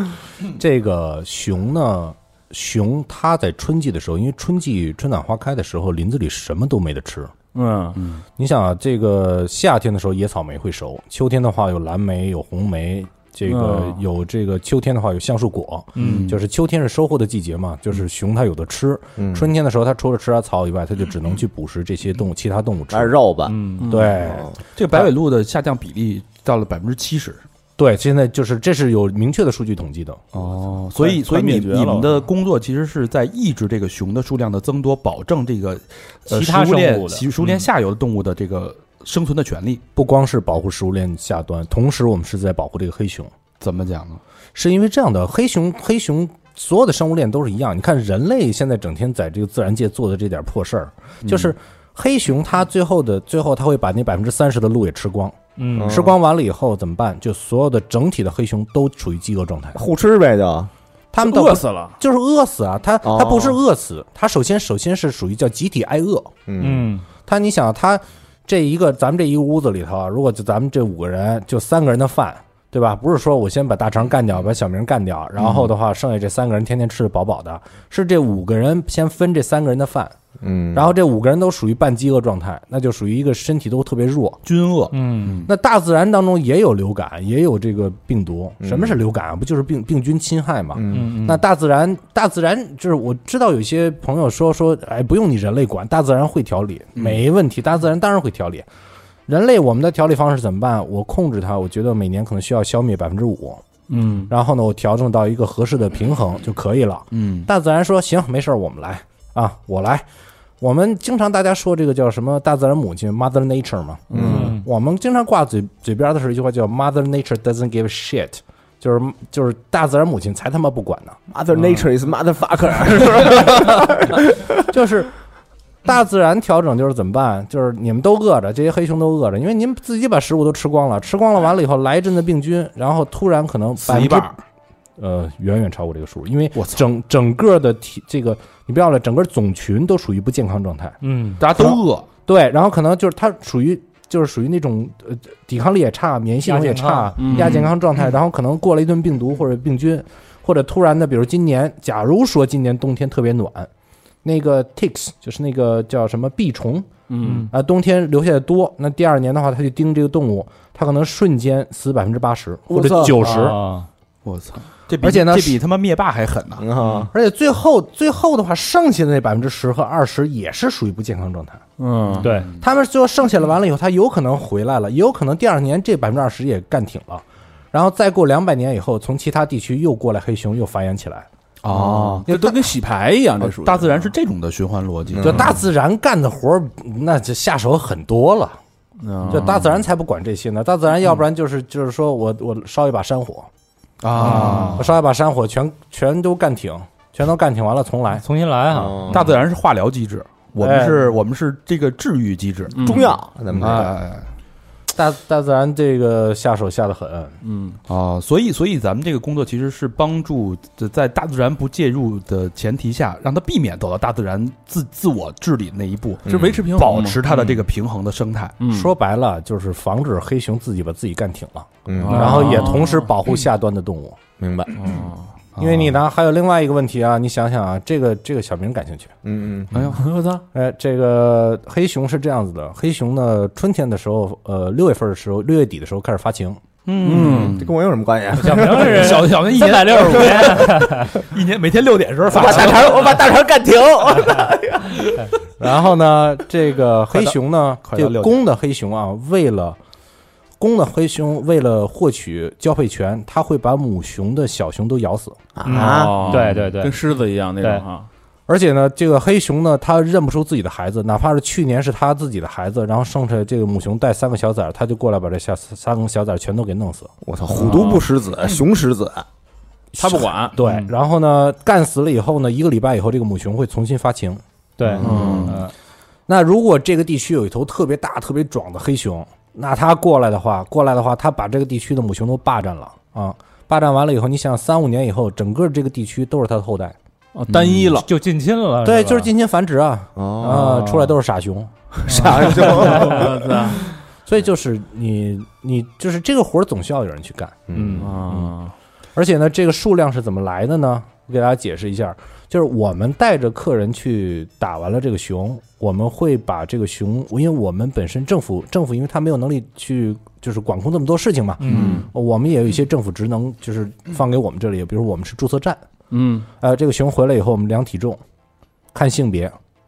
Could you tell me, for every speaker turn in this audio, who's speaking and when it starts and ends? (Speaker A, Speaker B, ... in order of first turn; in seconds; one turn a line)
Speaker A: 0.5-7.3
Speaker B: 7.5-8.2
Speaker A: 8.4-23.1
Speaker B: 13.5-14.0
Speaker C: 16.0-16.3
Speaker B: 16.0-16.4
Speaker D: 19.2-19.5
Speaker D: 22.9-23.7
Speaker C: 23.5-23.9
Speaker B: 23.8-24.2
Speaker A: 23.8-25.1
Speaker D: 24.2-24.6
Speaker E: 24.8-27.4
Speaker A: 27.8-30.2
Speaker E: 30.3-39.8
Speaker B: 30.9-32.2
Speaker C: 36.3-37.3
Speaker A: 40.0-43.3
Speaker E: 43.6-44.2
Speaker A: 44.5-59.8
Speaker E: 51.2-51.5
Speaker C: 55.6-56.0
Speaker D: 55.8-56.2
Speaker D: 59.8-60.7
Speaker A: 61.1-66.3
Speaker B: 61.2-62.0
Speaker D: 63.0-63.6
Speaker D: 66.5-66.9
Speaker C: 66.6-67.1
Speaker A: 67.2-80.2
Speaker D: 80.4-80.9
Speaker A: 80.7-84.4
Speaker E: 84.5-85.3
Speaker C: 84.9-85.5
Speaker A: 85.5-98.7
Speaker D: 88.6-89.0
Speaker D: 90.8-91.2
Speaker C: 90.9-91.4
Speaker E: 97.0-97.2
Speaker A: 99.3-103.6
Speaker B: 103.9-104.3
Speaker A: 104.3-110.1
Speaker E: 107.1-107.5
Speaker A: 110.6-121.2
Speaker D: 114.1-114.5
Speaker B: 114.2-114.5
Speaker C: 114.2-114.7
Speaker D: 121.3-124.6
Speaker A: 124.7-125.1
Speaker A: 125.8-134.3
Speaker E: 133.8-134.4
Speaker A: 135.0-141.0
Speaker E: 136.6-136.8
Speaker C: 141.0-141.4
Speaker E: 141.4-142.1
Speaker A: 141.6-153.7
Speaker C: 146.4-147.7
Speaker B: 147.2-147.7
Speaker A: 154.2-156.9
Speaker B: 157.1-157.5
Speaker C: 157.2-157.5
Speaker A: 157.5-163.6
Speaker C: 163.1-163.9
Speaker E: 164.2-166.7
Speaker A: 165.0-165.6
Speaker D: 166.6-167.1
Speaker A: 167.1-171.6
Speaker B: 171.8-172.4
Speaker C: 172.2-172.5
Speaker A: 172.6-181.3
Speaker E: 181.6-182.2
Speaker D: 181.7-182.3
Speaker B: 181.8-184.1
Speaker A: 182.3-182.7
Speaker E: 183.4-185.6
Speaker D: 185.1-185.5
Speaker A: 185.2-188.6
Speaker B: 189.0-189.7
Speaker A: 189.3-193.5
Speaker E: 194.0-194.9
Speaker A: 194.2-198.3
Speaker B: 194.3-194.8
Speaker C: 198.2-199.1
Speaker D: 198.7-199.4
Speaker E: 199.1-204.3
Speaker A: 200.6-201.2
Speaker B: 202.7-203.2
Speaker D: 202.8-203.9
Speaker A: 204.9-207.4
Speaker B: 207.4-207.8
Speaker E: 207.9-218.6
Speaker D: 216.3-216.7
Speaker B: 216.3-217.6
Speaker B: 218.6-218.9
Speaker A: 218.7-224.2
Speaker D: 221.9-222.4
Speaker E: 222.0-222.8
Speaker B: 222.0-223.0
Speaker D: 224.4-225.0
Speaker B: 224.8-225.3
Speaker E: 225.6-226.0
Speaker A: 225.6-229.1
Speaker D: 229.2-229.7
Speaker E: 229.7-230.0
Speaker B: 229.9-230.4
Speaker A: 230.5-236.6
Speaker E: 236.9-237.7
Speaker B: 237.0-237.7
Speaker D: 237.2-239.3
Speaker C: 238.3-241.2
Speaker E: 238.5-243.2
Speaker D: 240.0-240.5
Speaker D: 242.3-245.2
Speaker C: 242.4-242.7
Speaker A: 245.6-249.8
Speaker E: 247.1-248.4
Speaker A: 250.6-255.4
Speaker D: 255.6-256.4
Speaker C: 255.6-257.0
Speaker B: 255.7-258.1
Speaker A: 258.5-267.1
Speaker D: 267.2-269.2
Speaker B: 267.5-268.1
Speaker A: 269.9-274.4
Speaker B: 270.0-270.8
Speaker C: 274.8-275.7
Speaker D: 274.8-275.6
Speaker B: 275.0-275.6
Speaker E: 275.2-275.4
Speaker A: 276.3-287.0
Speaker B: 287.4-288.1
Speaker D: 287.5-288.0
Speaker C: 288.0-289.3
Speaker A: 288.8-293.1
Speaker D: 290.2-290.8
Speaker C: 290.4-291.1
Speaker D: 292.1-293.9
Speaker B: 292.2-293.9
Speaker C: 292.7-293.1
Speaker A: 294.3-297.7
Speaker D: 297.7-298.5
Speaker C: 297.7-298.1
Speaker B: 298.0-298.7
Speaker A: 299.2-315.8
Speaker C: 311.6-312.0
Speaker D: 311.7-312.1
Speaker B: 316.1-316.5
Speaker A: 316.6-318.2
Speaker A: 318.9-319.6